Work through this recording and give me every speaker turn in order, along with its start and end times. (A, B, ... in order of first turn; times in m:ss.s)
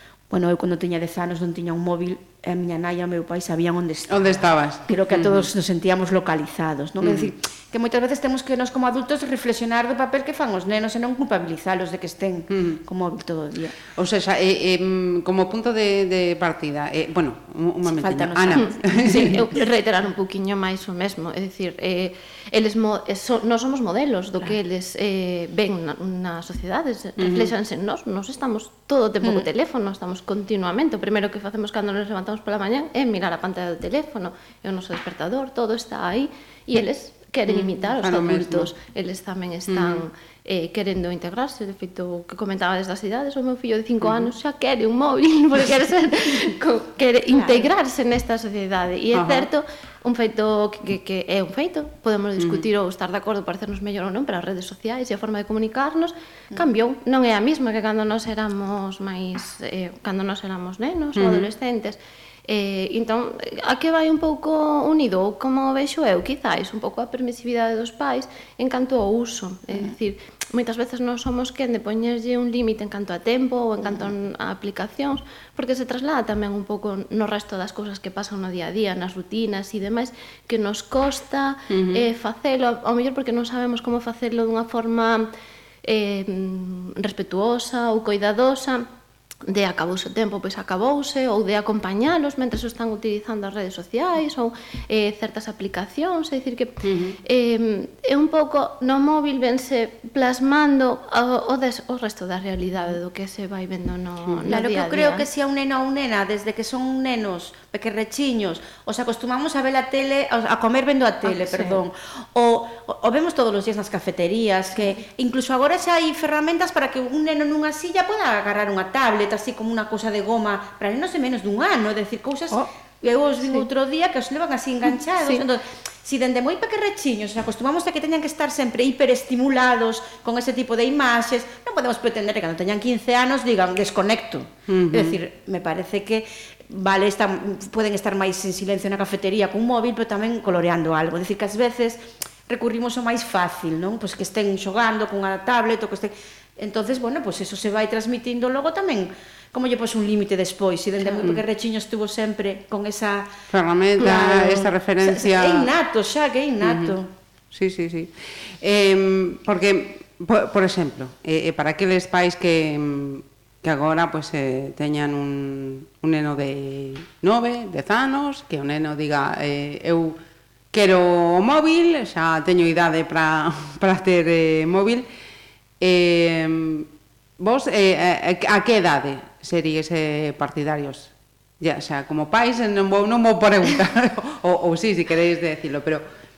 0:00.3-0:13.8 A
0:04.1-0:05.5 B
0:07.0-0:07.3 B
0:14.0-0:19.4 B
0:17.8-0:19.4 A
0:18.8-1:25.3 C
0:27.2-0:27.5 B
0:37.5-0:38.7 B
0:39.7-0:40.0 B
0:44.0-0:44.3 B
0:47.3-0:47.7 A
0:49.1-0:49.5 B
0:52.4-0:52.6 B
1:01.2-1:01.5 B
1:21.7-1:22.0 B
1:25.8-1:28.9 C
1:29.5-1:45.3 C
1:36.8-1:37.2 B
1:44.5-2:33.3 A
1:51.3-1:51.8 C
2:03.4-2:03.7 C
2:14.7-2:15.2 B
2:31.0-2:31.4 B
2:33.5-2:35.7 B
2:34.0-2:37.1 A
2:36.6-2:37.0 B
2:37.5-2:50.2 B
2:50.7-2:55.1 B
2:55.8-2:56.9 B
2:57.4-3:06.0 B